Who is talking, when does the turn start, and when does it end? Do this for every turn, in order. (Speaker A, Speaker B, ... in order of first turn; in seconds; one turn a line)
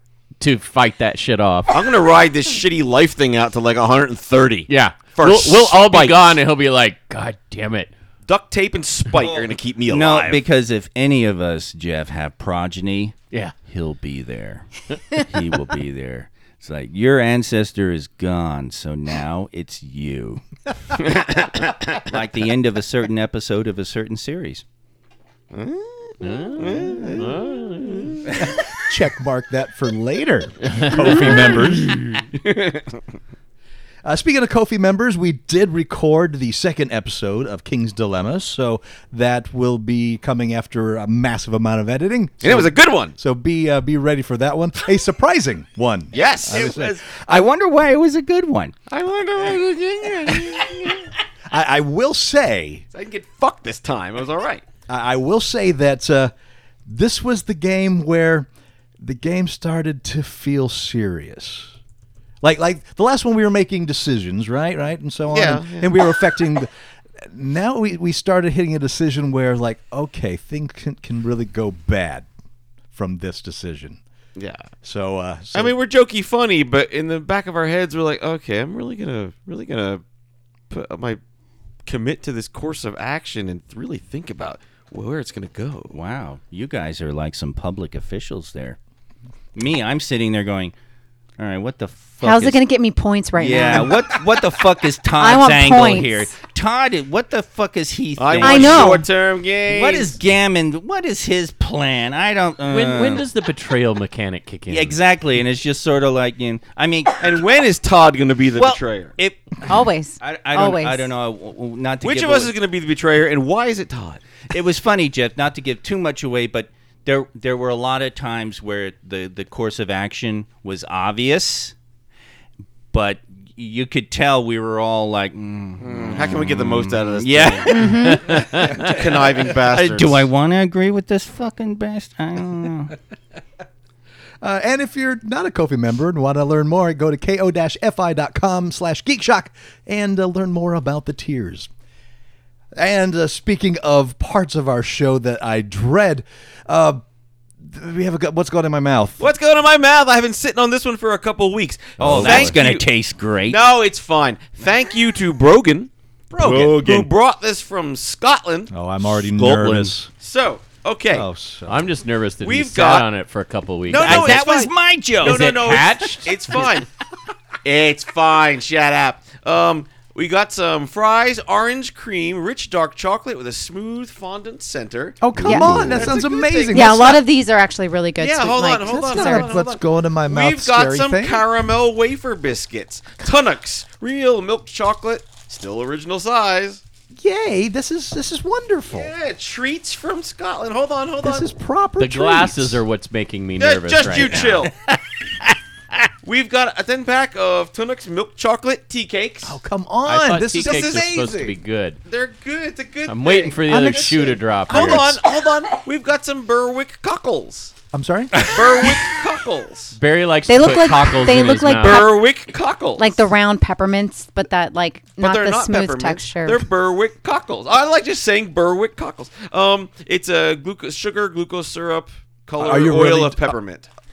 Speaker A: 0.4-1.8
Speaker B: 1.7-6.2
Speaker A: 4.7-7.9
Speaker B: 8.2-10.4
Speaker C: 9.1-21.4
Speaker B: 21.1-21.8
Speaker C: 21.9-24.6
Speaker B: 25.5-28.5
Speaker A: 26.2-28.4
Speaker D: 28.4-32.0
Speaker A: 30.7-31.7
Speaker B: 31.2-33.0
Speaker D: 34.0-47.2
Speaker B: 42.4-43.1
Speaker B: 46.1-47.0
Speaker C: 47.1-48.8
Speaker B: 48.9-51.1
Speaker D: 51.5-52.8
Speaker B: 52.9-54.7
Speaker D: 54.9-56.3
Speaker D: 56.9-58.5
Speaker D: 59.0-61.8
Speaker D: 62.4-66.7
Speaker B: 65.3-65.9
Speaker D: 67.2-72.3
Speaker D: 72.9-74.0
Speaker B: 74.4-74.7
Speaker D: 74.8-75.8
Speaker B: 75.5-80.0
Speaker B: 80.7-81.2
Speaker B: 81.9-86.0
Speaker C: 85.9-88.8
Speaker C: 89.5-90.7
Speaker C: 91.4-92.6
Speaker E: 92.2-94.0
Speaker C: 93.4-99.1
Speaker E: 95.2-96.3
Speaker B: 98.2-100.2
Speaker E: 98.4-99.1
Speaker C: 99.7-103.2
Speaker A: 102.7-105.0
Speaker C: 104.7-107.2
Speaker B: 107.2-109.2
Speaker C: 108.6-112.5
Speaker E: 109.7-111.1
Speaker B: 112.0-114.2
Speaker C: 114.5-121.7
Speaker C: 122.9-132.9
Speaker B: 125.8-128.1
Speaker E: 127.7-128.3
Speaker A: 128.3-128.8
Speaker B: 128.8-130.2
Speaker D: 134.4-141.7
Speaker D: 142.8-147.0
Speaker D: 147.6-149.2
Speaker B: 149.2-152.9
Speaker A: 152.0-152.5
Speaker D: 152.0-152.5
Speaker C: 152.0-153.6
Speaker B: 153.5-158.7
Speaker D: 156.3-156.7
Speaker C: 156.4-157.1
Speaker D: 158.7-160.1
Speaker C: 159.1-159.9
Speaker B: 160.2-161.3
Speaker D: 161.1-161.9
Speaker A: 161.7-164.5
Speaker B: 162.4-163.1
Speaker B: 163.9-166.9
Speaker C: 164.0-166.3
Speaker A: 165.2-166.3
Speaker B: 167.6-177.2
Speaker D: 175.2-177.2
Speaker E: 175.4-175.8
Speaker E: 176.7-179.6
Speaker B: 178.2-186.8
Speaker D: 178.8-181.4
Speaker D: 187.2-189.1
Speaker B: 188.9-191.5
Speaker D: 191.2-192.8
Speaker A: 192.0-194.7
Speaker B: 193.6-194.7
Speaker B: 196.2-199.6
Speaker D: 199.4-201.3
Speaker A: 200.1-202.0
Speaker B: 200.5-201.6
Speaker B: 202.1-204.1
Speaker A: 203.1-205.2
Speaker D: 203.7-205.0
Speaker B: 204.7-207.7
Speaker D: 207.9-208.7
Speaker B: 208.3-210.0
Speaker A: 209.9-212.1
Speaker E: 210.5-212.2
Speaker B: 211.8-213.2
Speaker E: 213.0-216.7
Speaker B: 215.2-223.9
Speaker D: 222.6-223.5